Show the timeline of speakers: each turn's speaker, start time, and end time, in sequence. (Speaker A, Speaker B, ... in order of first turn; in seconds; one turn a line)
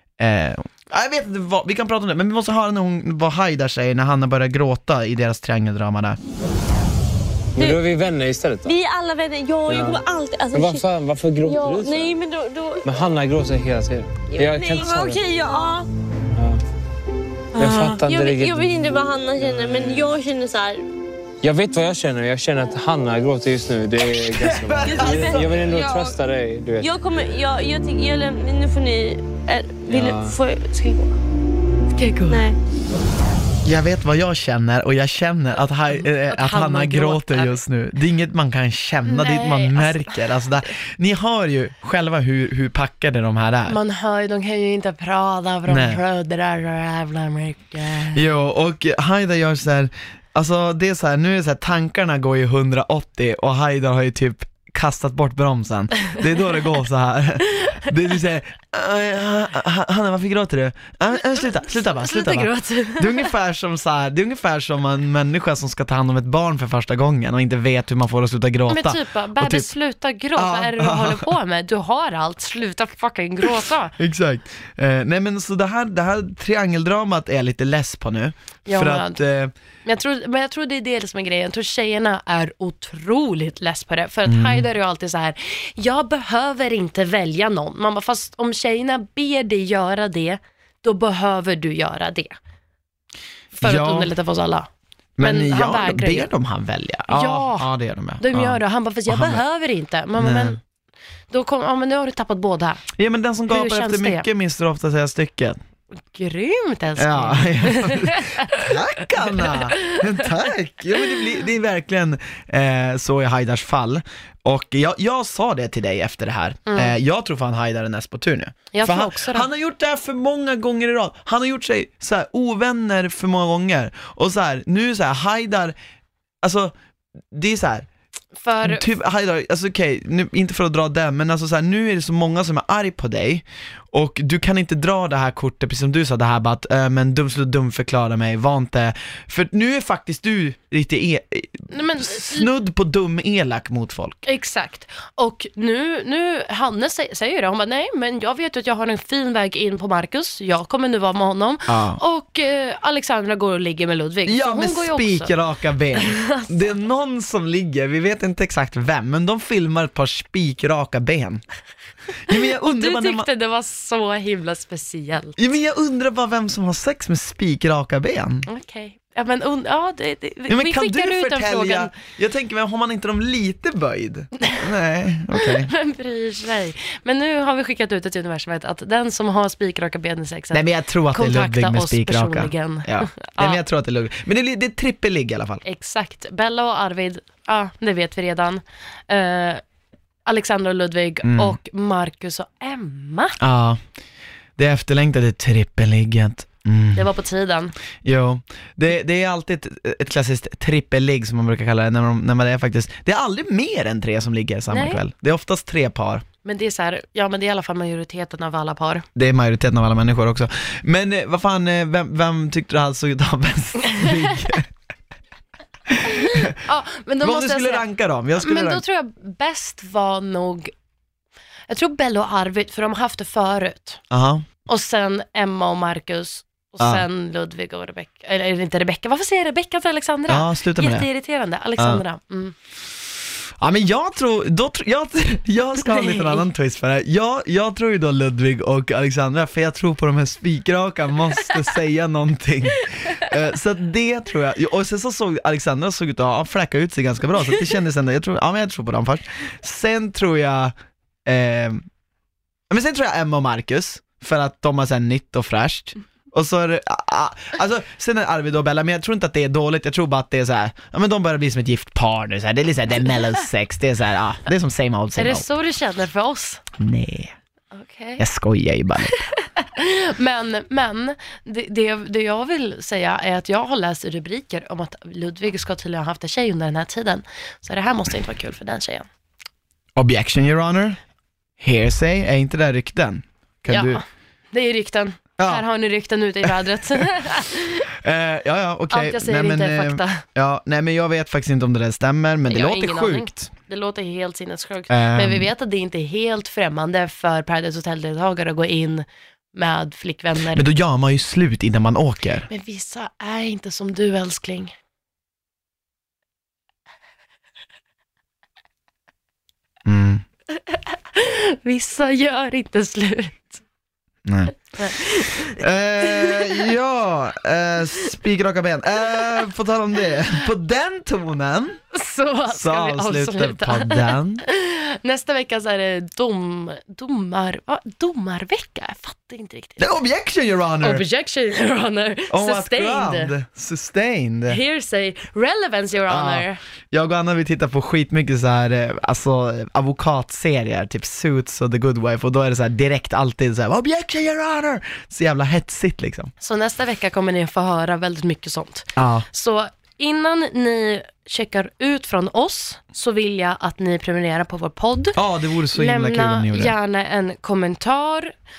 Speaker A: 0.2-6.2
Speaker B: 7.6-8.7
Speaker C: 8.6-10.9
Speaker B: 9.7-12.1
Speaker C: 11.4-12.9
Speaker B: 12.8-15.2
Speaker C: 14.3-15.9
Speaker B: 16.3-16.6
Speaker C: 17.5-20.8
Speaker B: 17.5-18.7
Speaker B: 19.4-20.0
Speaker B: 21.4-26.9
Speaker A: 24.3-25.4
Speaker C: 24.8-26.2
Speaker C: 26.8-31.1
Speaker B: 29.9-30.4
Speaker D: 31.9-32.4
Speaker C: 32.3-32.6
Speaker A: 33.6-43.8
Speaker D: 35.9-37.6
Speaker D: 39.0-40.3
Speaker D: 43.7-48.2
Speaker A: 45.7-46.0
Speaker A: 48.1-69.7
Speaker D: 57.6-57.9
Speaker D: 61.7-63.3
Speaker D: 68.7-73.9
Speaker A: 70.3-71.3
Speaker A: 74.0-79.5
Speaker D: 78.7-79.2
Speaker D: 79.8-92.3
Speaker A: 84.2-84.6
Speaker A: 93.5-94.1
Speaker D: 93.6-94.7
Speaker A: 95.2-99.4
Speaker D: 95.2-96.3
Speaker D: 97.1-97.7
Speaker D: 98.2-100.6
Speaker A: 100.2-100.6
Speaker D: 101.3-102.8
Speaker A: 103.0-105.6
Speaker D: 103.5-104.2
Speaker D: 106.1-110.1
Speaker A: 107.0-125.7
Speaker D: 116.7-116.9
Speaker D: 118.7-119.5
Speaker A: 126.4-126.7
Speaker A: 127.3-127.9
Speaker D: 128.4-128.9
Speaker A: 128.6-144.2
Speaker D: 141.7-142.5
Speaker D: 144.2-155.3
Speaker A: 151.7-152.0
Speaker A: 154.2-161.4
Speaker D: 155.9-156.6
Speaker A: 162.3-163.3
Speaker D: 162.3-165.4
Speaker A: 165.4-168.5
Speaker D: 168.5-171.9
Speaker A: 170.5-175.7
Speaker D: 175.3-183.6
Speaker A: 180.5-185.6
Speaker D: 185.6-189.6
Speaker D: 190.2-193.4
Speaker A: 191.2-191.6
Speaker A: 193.4-193.8
Speaker A: 194.6-197.1
Speaker D: 196.9-197.7
Speaker A: 198.0-206.2
Speaker D: 204.7-205.0
Speaker D: 206.4-209.0
Speaker A: 209.2-214.7
Speaker A: 215.9-216.5
Speaker D: 216.0-217.8
Speaker A: 217.2-218.8
Speaker D: 218.4-220.7
Speaker D: 221.7-224.0
Speaker A: 224.1-224.4
Speaker D: 224.7-232.5
Speaker A: 226.8-227.0
Speaker A: 230.3-231.1
Speaker A: 233.6-251.8
Speaker D: 235.8-236.4
Speaker A: 252.7-265.5
Speaker D: 265.1-266.6
Speaker A: 266.8-267.3
Speaker D: 267.7-268.2
Speaker A: 268.2-269.2
Speaker D: 269.3-279.1
Speaker A: 279.9-281.0
Speaker A: 281.6-284.0
Speaker D: 283.7-287.9
Speaker A: 285.4-285.6
Speaker A: 286.4-287.0
Speaker A: 288.0-293.5
Speaker D: 288.9-290.2
Speaker D: 292.5-300.7
Speaker A: 294.9-295.5
Speaker A: 300.5-302.5
Speaker D: 302.5-304.7
Speaker A: 309.8-310.2
Speaker D: 311.1-313.6
Speaker A: 314.2-321.8
Speaker D: 314.8-315.6
Speaker D: 316.1-316.7
Speaker D: 321.9-329.9
Speaker A: 322.5-324.4
Speaker A: 329.8-331.0
Speaker D: 330.8-333.3
Speaker A: 332.3-334.6
Speaker D: 334.5-336.6
Speaker A: 336.1-346.3
Speaker D: 346.4-355.2
Speaker A: 348.9-349.2
Speaker A: 355.1-356.7
Speaker D: 355.7-358.3